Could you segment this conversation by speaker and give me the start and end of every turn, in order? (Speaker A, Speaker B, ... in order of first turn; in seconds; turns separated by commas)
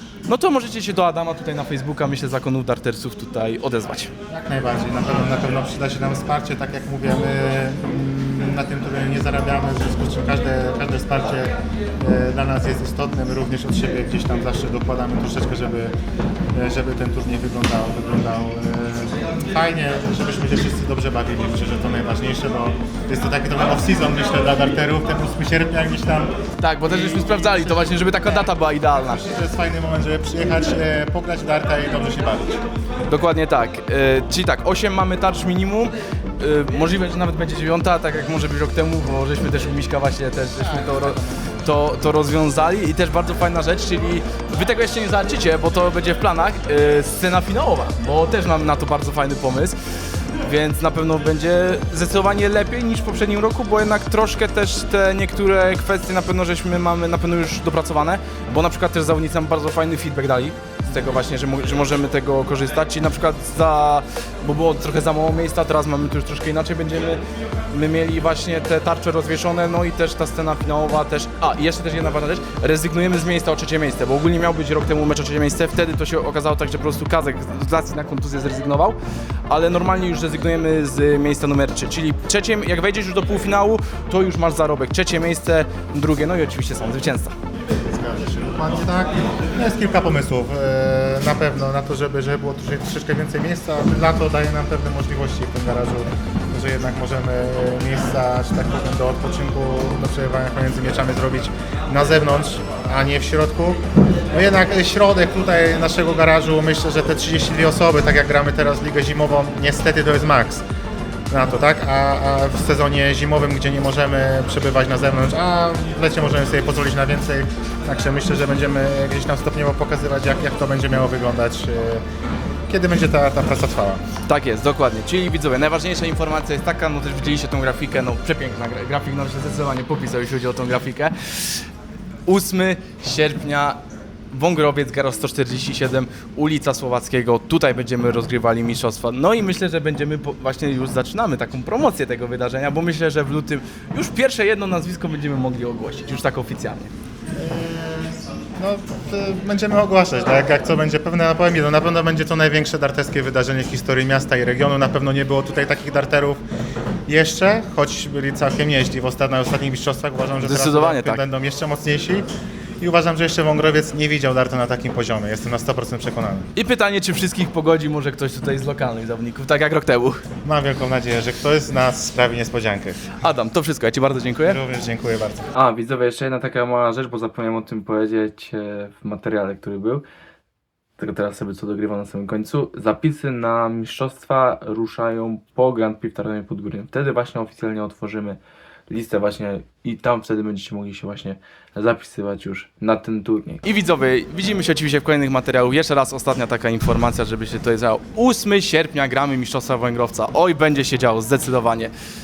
Speaker A: 0.3-4.1, Speaker B: 4.3-15.9, Speaker B: 16.5-26.3, Speaker A: 26.6-29.2, Speaker B: 27.2-32.6, Speaker A: 33.1-49.8, Speaker B: 40.6-41.6, Speaker A: 50.4-67.2, Speaker A: 67.7-79.0, Speaker A: 79.5-87.3, Speaker B: 87.9-110.6, Speaker B: 111.3-122.0, Speaker B: 122.7-124.0, Speaker A: 124.3-131.6, Speaker A: 132.3-133.8, Speaker A: 134.3-146.9, Speaker B: 147.4-156.4, Speaker B: 157.1-162.3, Speaker A: 160.4-161.2, Speaker B: 162.8-166.5, Speaker A: 166.6-170.2, Speaker B: 170.4-173.0, Speaker A: 173.2-174.6, Speaker B: 174.5-175.5, Speaker C: 175.5-180.1, Speaker C: 181.0-193.6, Speaker A: 193.6-201.9